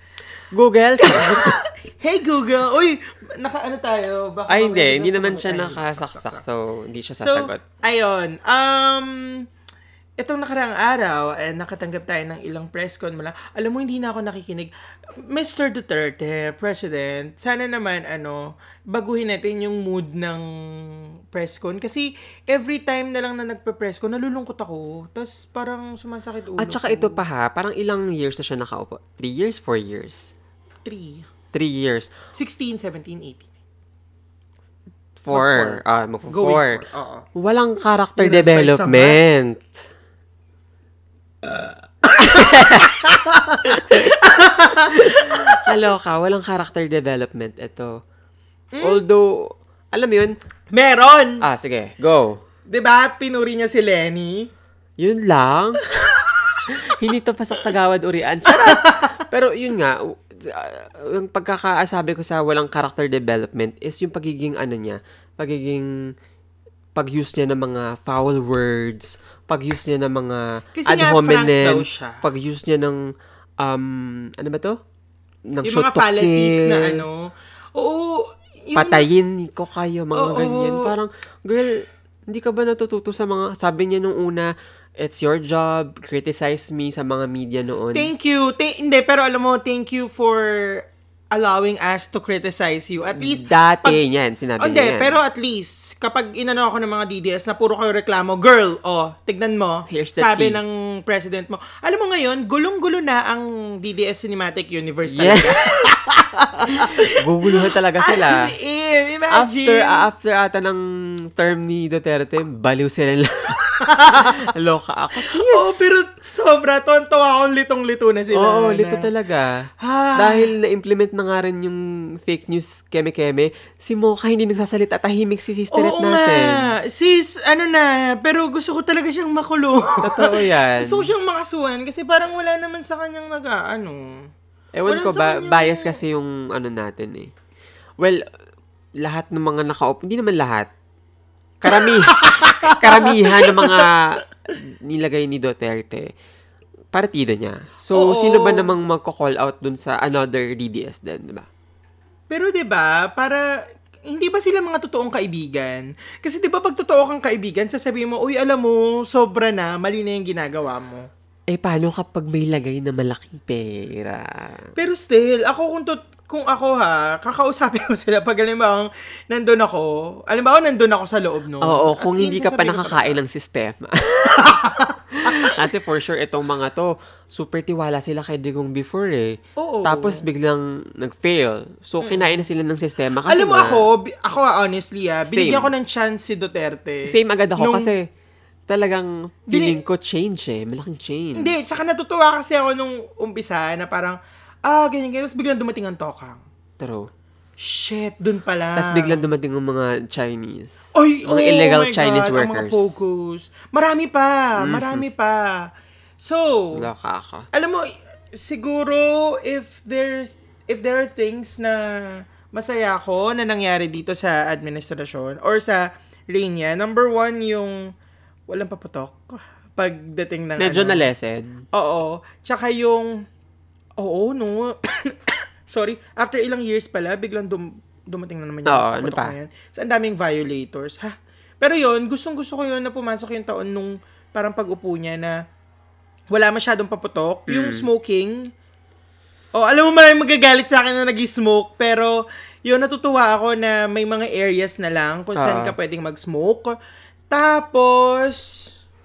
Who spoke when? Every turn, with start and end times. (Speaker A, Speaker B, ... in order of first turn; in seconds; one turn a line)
Speaker A: 0.5-1.6
Speaker B: 1.0-6.4
Speaker A: 4.5-7.6
Speaker B: 7.2-9.4
Speaker B: 10.2-20.4
Speaker B: 21.3-27.2
Speaker A: 26.6-30.3
Speaker B: 30.9-31.3
Speaker A: 31.5-32.1
Speaker B: 32.4-33.5
Speaker A: 35.2-36.8
Speaker B: 35.3-37.3
Speaker A: 37.4-39.9
Speaker B: 38.2-39.2
Speaker B: 41.5-45.7
Speaker A: 42.1-43.1
Speaker A: 43.7-44.2
Speaker A: 44.9-48.0
Speaker B: 48.7-49.0
Speaker A: 48.8-50.4
Speaker B: 50.7-51.4
Speaker A: 51.4-52.4
Speaker B: 52.7-54.5
Speaker A: 55.0-55.8
Speaker B: 56.0-56.6
Speaker A: 56.7-65.9
Speaker B: 58.5-59.2
Speaker A: 67.0-73.0
Speaker B: 70.8-72.2
Speaker A: 73.6-74.8
Speaker A: 75.5-77.0
Speaker B: 75.7-79.1
Speaker A: 78.8-88.1
Speaker B: 80.2-80.9
Speaker B: 87.9-94.0
Speaker A: 93.2-95.2
Speaker B: 94.6-110.0
Speaker A: 99.9-100.6
Speaker A: 105.1-105.5
Speaker A: 106.7-108.5
Speaker A: 109.3-110.8
Speaker A: 111.3-115.9
Speaker B: 113.8-114.5
Speaker B: 115.2-119.1
Speaker A: 118.3-119.5
Speaker B: 119.8-120.5
Speaker A: 120.2-126.7
Speaker B: 125.7-134.2
Speaker A: 130.0-131.1
Speaker A: 134.8-137.3
Speaker B: 134.9-136.0
Speaker A: 139.0-140.7
Speaker A: 141.6-146.1
Speaker B: 141.7-143.9
Speaker A: 146.9-151.5
Speaker B: 147.9-148.7
Speaker B: 152.3-153.4
Speaker B: 154.1-161.1
Speaker A: 161.5-164.7
Speaker B: 164.8-173.2
Speaker A: 171.6-174.6
Speaker B: 174.3-175.6
Speaker A: 175.1-183.8
Speaker B: 179.6-180.2
Speaker B: 182.0-182.3
Speaker B: 183.3-187.9
Speaker A: 185.3-185.7
Speaker A: 187.1-188.1
Speaker A: 188.7-191.6
Speaker B: 189.5-189.8
Speaker B: 191.3-196.4
Speaker A: 196.8-197.1
Speaker B: 197.6-199.2
Speaker A: 198.8-203.0
Speaker B: 200.9-205.7
Speaker A: 204.6-205.0
Speaker B: 206.2-206.9
Speaker A: 206.8-207.5
Speaker B: 207.5-217.8
Speaker B: 218.5-221.1
Speaker A: 220.6-221.6
Speaker B: 221.7-223.2
Speaker B: 224.0-235.4
Speaker A: 228.7-229.3
Speaker B: 236.3-238.5
Speaker A: 237.5-237.9
Speaker B: 239.6-246.8
Speaker A: 245.4-245.8
Speaker B: 247.3-248.7